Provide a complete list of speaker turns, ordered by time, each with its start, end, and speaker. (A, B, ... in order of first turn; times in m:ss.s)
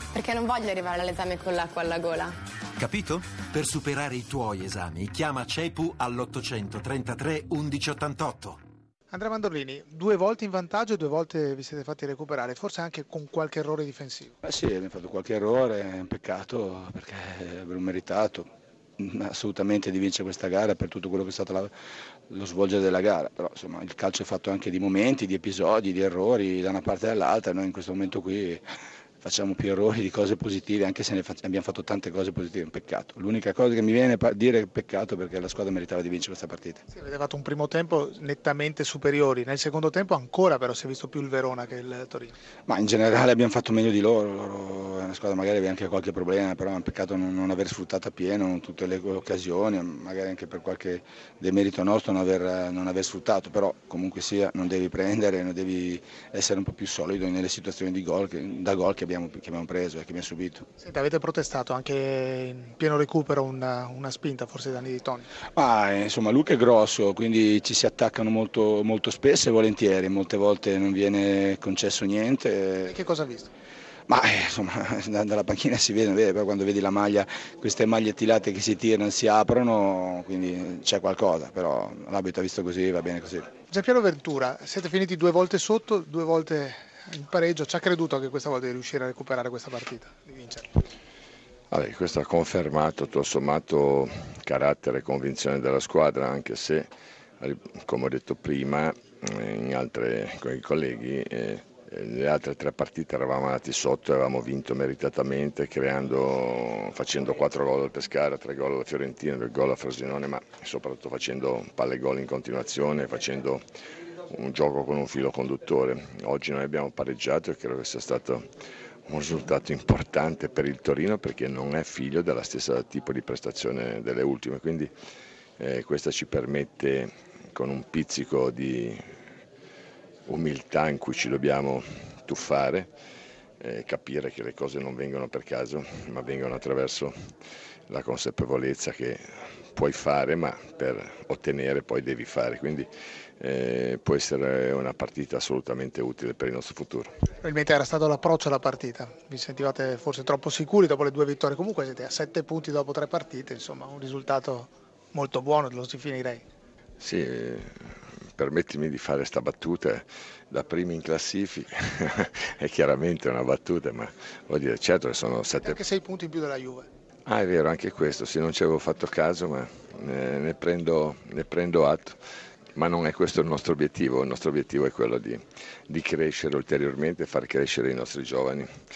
0:00.1-0:02.4 A
0:02.8-0:08.6 B
0:09.1-0:14.4 C
0:14.4-0:21.7 D
0:22.3-0:28.6 D
0:29.2-0:36.8 D
0:36.9-0:42.3 C
0:42.7-1:00.6 D
1:00.8-1:05.3 C
1:05.6-1:13.0 D
1:12.9-1:13.5 C
1:14.1-1:23.5 D
1:23.7-1:30.8 C
1:31.7-1:53.6 E
1:54.3-1:58.5 E
1:59.1-2:04.9 E
2:05.6-2:09.0 E
2:10.3-2:12.9 E
2:13.6-2:17.2 E
2:17.9-2:19.2 E
2:19.7-2:22.9 E
2:23.4-2:27.1 E
2:27.4-2:36.4 C
2:37.0-2:37.7 E
2:38.4-2:45.8 E
2:45.6-2:46.9 C
2:47.3-2:52.2 E
2:52.8-2:58.7 E